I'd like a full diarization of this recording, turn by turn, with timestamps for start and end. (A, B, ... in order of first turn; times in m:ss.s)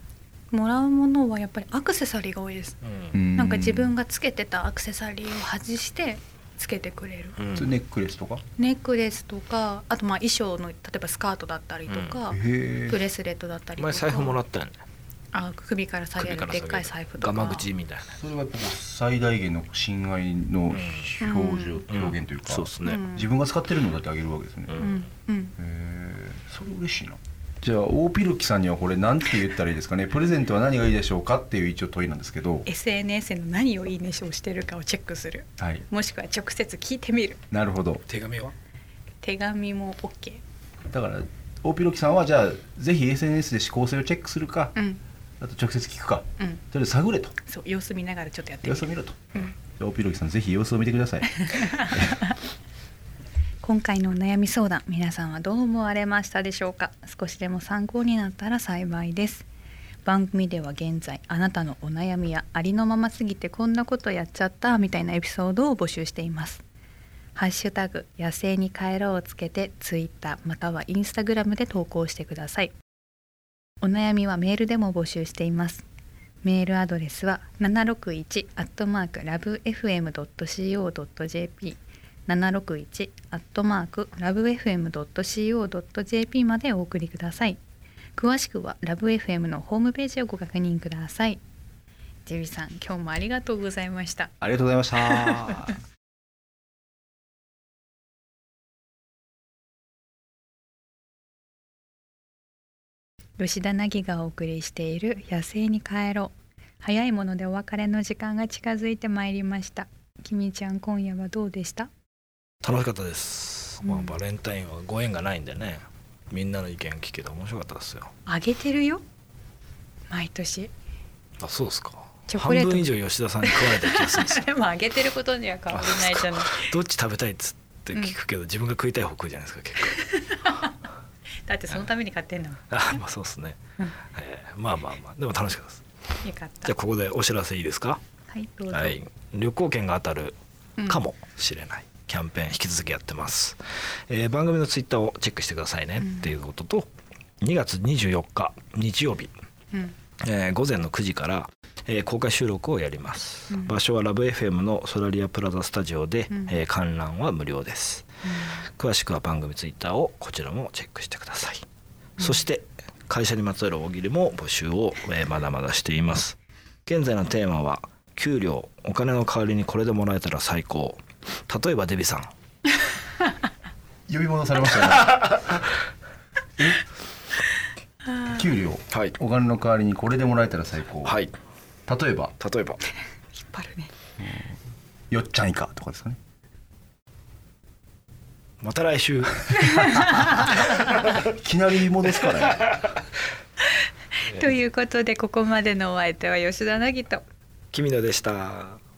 0:00.5-0:02.8 A
0:02.9-0:03.2 B
0:03.1-0:03.9 C
0:03.4-0:07.4 A
0:07.4-0:07.7 B
0:07.6-0:08.4 C
0:08.6-0:14.4 A
0:11.9-0:12.2 B
0:12.3-0:13.0 C
0:13.8-0:14.8 B
0:15.3-0:17.7 A
0:16.2-0:18.2 B
0:18.1-0:25.0 C
0:20.7-0:21.2 B
0:21.2-0:21.8 A
0:21.9-0:23.0 B
0:22.8-0:23.3 A
0:24.7-0:25.0 B
0:24.8-0:25.5 A
0:25.6-0:32.7 C
0:32.7-0:37.4 A
0:35.6-0:35.8 C
0:37.5-0:38.0 C
0:38.1-0:38.5 B
0:39.2-0:40.4 A
0:40.9-0:44.8 C
0:44.8-0:45.0 A
0:45.4-0:47.4 C
0:47.4-0:49.5 A
0:48.6-0:52.2 C
0:51.3-0:52.4 A
0:53.6-0:59.5 A
1:00.0-1:06.6 A
1:07.4-1:12.7 A
1:13.8-1:15.8 A
1:16.4-1:27.6 A
1:28.2-1:31.4 A
1:32.3-1:34.3 A
1:34.4-1:35.8 C
1:35.0-1:35.7 A
1:43.4-1:51.9 A
1:52.6-1:58.1 B
1:53.8-1:54.2 A
1:58.3-1:59.0 A
2:00.1-2:00.7 A
2:01.4-2:04.4 B
2:02.3-2:02.9 A
2:03.4-2:06.7 A
2:05.7-2:10.1 B
2:09.9-2:10.7 A
2:11.4-2:13.0 A
2:12.7-2:15.8 B
2:16.2-2:16.7 A
2:16.6-2:18.0 B
2:18.3-2:19.0 A
2:18.7-2:26.9 B
2:26.0-2:26.3 A
2:27.4-2:29.3 B
2:30.2-2:41.6 B
2:36.3-2:36.6 A
2:38.2-2:38.6 A
2:42.2-2:52.3 B
2:42.2-2:42.4 A
2:54.1-2:55.3 C
2:54.7-2:55.6 B
2:58.2-3:01.2 C
2:58.9-2:59.2 B
3:01.0-3:01.4 B
3:01.9-3:02.4 C
3:02.4-3:02.8 B
3:03.4-3:03.9 A
3:04.2-3:04.6 C
3:05.1-3:06.2 C
3:08.6-3:11.2 B
3:09.6-3:10.0 C
3:09.6-3:10.6 A
3:11.2-3:12.7 C
3:12.3-3:13.0 B
3:14.2-3:17.2 A
3:14.3-3:14.6 B
3:17.7-3:18.8 B